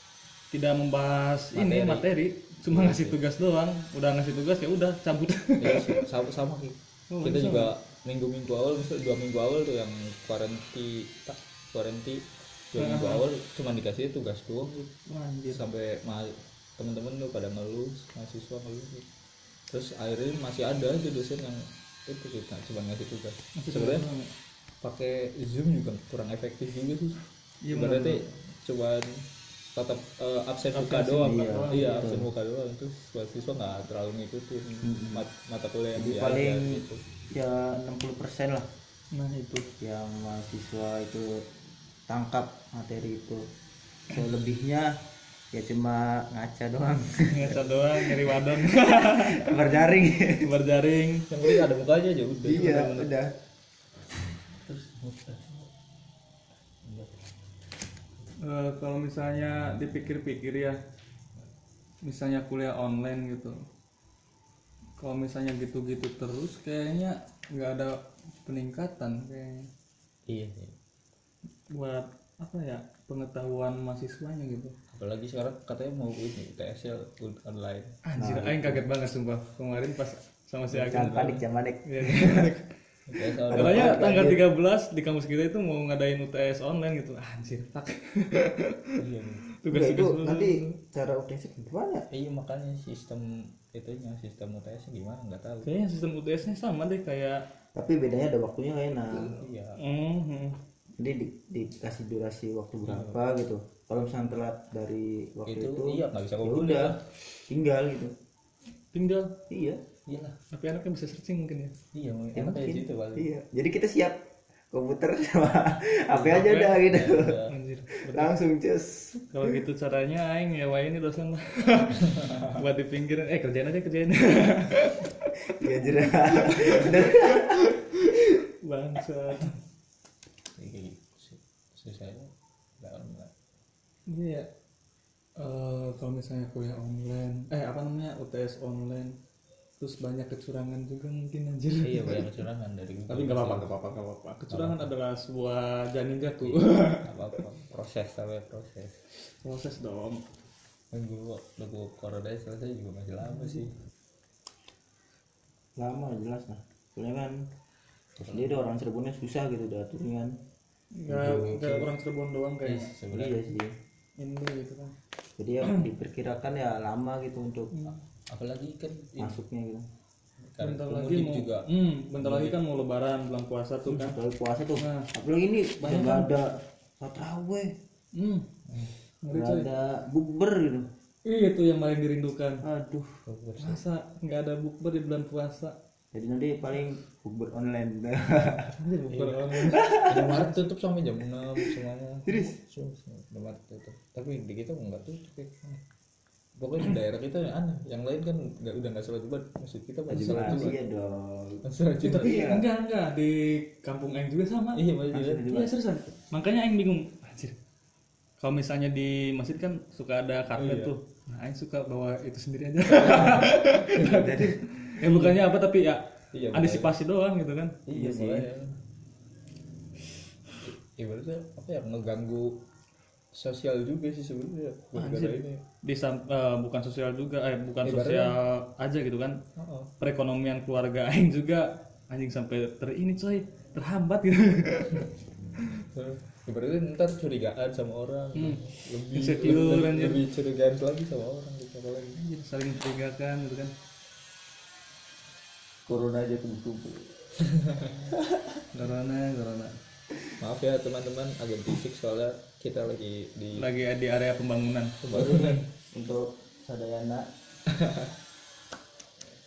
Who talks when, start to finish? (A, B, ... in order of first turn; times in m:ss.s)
0:00.5-0:06.0 A
0:01.5-0:02.1 B
0:02.7-0:03.2 B
0:05.6-0:14.9 B
0:07.1-0:07.7 A
0:12.8-0:13.3 A
0:15.1-0:15.6 A
0:15.5-0:19.1 B
0:19.7-0:24.1 B
0:23.6-0:24.3 A
0:24.8-0:27.2 B
0:27.6-0:28.3 A
0:27.7-0:37.0 B
0:30.7-0:32.2 A
0:31.2-0:32.3 C
0:34.8-0:35.2 C
0:36.0-0:38.7 C
0:39.1-0:39.7 A
0:39.8-0:41.4 C
0:42.1-0:43.4 C
0:44.1-0:44.9 C
0:45.5-0:50.5 C
0:47.3-0:49.8 A
0:47.4-0:47.7 B
0:50.4-0:51.3 A
0:51.3-0:52.9 B
0:52.4-0:53.4 C
0:52.5-0:53.1 A
0:54.6-0:55.7 B
0:56.8-0:57.2 B
0:58.4-1:00.8 A
1:02.0-1:03.6 A
1:05.0-1:09.7 A
1:10.3-1:10.8 B
1:11.7-1:14.8 A
1:14.9-1:18.0 B
1:18.0-1:22.7 A
1:18.2-1:18.9 C
1:20.7-1:22.5 C
1:20.8-1:21.3 B
1:23.1-1:24.2 B
1:23.5-1:29.0 A
1:23.5-1:24.4 C
1:29.0-1:29.5 B
1:29.6-1:30.6 A
1:29.7-1:32.1 C
1:32.1-1:35.7 B
1:35.6-1:37.4 A
1:37.8-1:39.4 C
1:39.1-1:39.8 B
1:39.8-1:40.6 A
1:41.0-1:48.1 C
1:42.9-1:43.2 B
1:45.5-1:47.0 B
1:48.9-1:49.4 A
1:49.5-1:49.8 C
1:50.1-1:50.4 B
1:50.5-1:51.8 A
1:51.9-1:53.3 B
1:52.3-1:54.2 C
1:54.7-1:57.4 C
1:56.1-1:58.4 A
1:56.9-1:57.5 B
1:57.9-1:59.6 C
1:59.3-2:05.2 A
2:02.1-2:02.6 B
2:05.4-2:07.8 C
2:06.4-2:07.4 A
2:08.6-2:09.6 A
2:10.6-2:13.3 B
2:14.1-2:14.5 A
2:15.4-2:19.2 A
2:19.8-2:22.2 A
2:21.8-2:23.7 B
2:23.1-2:27.1 A
2:24.5-2:24.9 B
2:26.4-2:29.0 B
2:29.4-2:30.2 A
2:30.9-2:33.7 B
2:33.3-2:33.6 A
2:35.8-2:37.5 C
2:38.2-2:40.4 C
2:41.0-2:42.9 A
2:41.1-2:41.9 B
2:41.2-2:41.8 C
2:42.6-2:43.5 B
2:43.1-2:43.7 C
2:44.2-2:45.0 A
2:45.4-2:47.8 C
2:47.7-2:48.0 A
2:48.3-2:49.4 B
2:49.2-2:49.8 C
2:50.4-2:51.7 B
2:50.6-2:54.2 A
2:52.2-2:52.6 B
2:53.9-2:57.7 C
2:54.8-2:55.1 A
2:55.8-2:56.3 A
2:58.2-2:58.5 A
2:58.7-2:58.9 B
2:59.2-2:59.7 A
2:59.3-3:00.9 C
3:01.2-3:02.6 A
3:02.6-3:03.2 C
3:03.3-3:03.8 B
3:03.6-3:05.8 A
3:06.1-3:10.4 C
3:08.8-3:10.4 A
3:09.1-3:09.4 B
3:10.1-3:15.8 B
3:12.3-3:12.6 C
3:16.6-3:20.8 B
3:20.1-3:22.7 C
3:20.3-3:20.8 A
3:21.6-3:22.4 B
3:22.0-3:24.8 A
3:24.7-3:25.6 B
3:25.1-3:25.7 C
3:25.4-3:27.6 A
3:28.4-3:38.5 A
3:30.6-3:30.9 B
3:32.9-3:34.3 B
3:34.0-3:34.6 C
3:35.1-3:35.3 B
3:36.3-3:36.9 B
3:37.9-3:38.8 B
3:40.7-3:42.6 B
3:43.3-3:45.6 B
3:45.0-3:49.4 A
3:47.8-3:48.3 B
3:49.6-3:49.9 B
3:50.0-3:55.1 A
3:55.9-4:02.2 B
3:58.4-4:00.2 A
4:02.2-4:03.7 A
4:05.9-4:07.2 C
4:07.6-4:08.0 B
4:08.1-4:08.4 C
4:08.7-4:09.7 A
4:10.4-4:13.7 B
4:13.6-4:15.0 A
4:15.0-4:15.6 B
4:15.1-4:17.3 C
4:17.8-4:18.1 B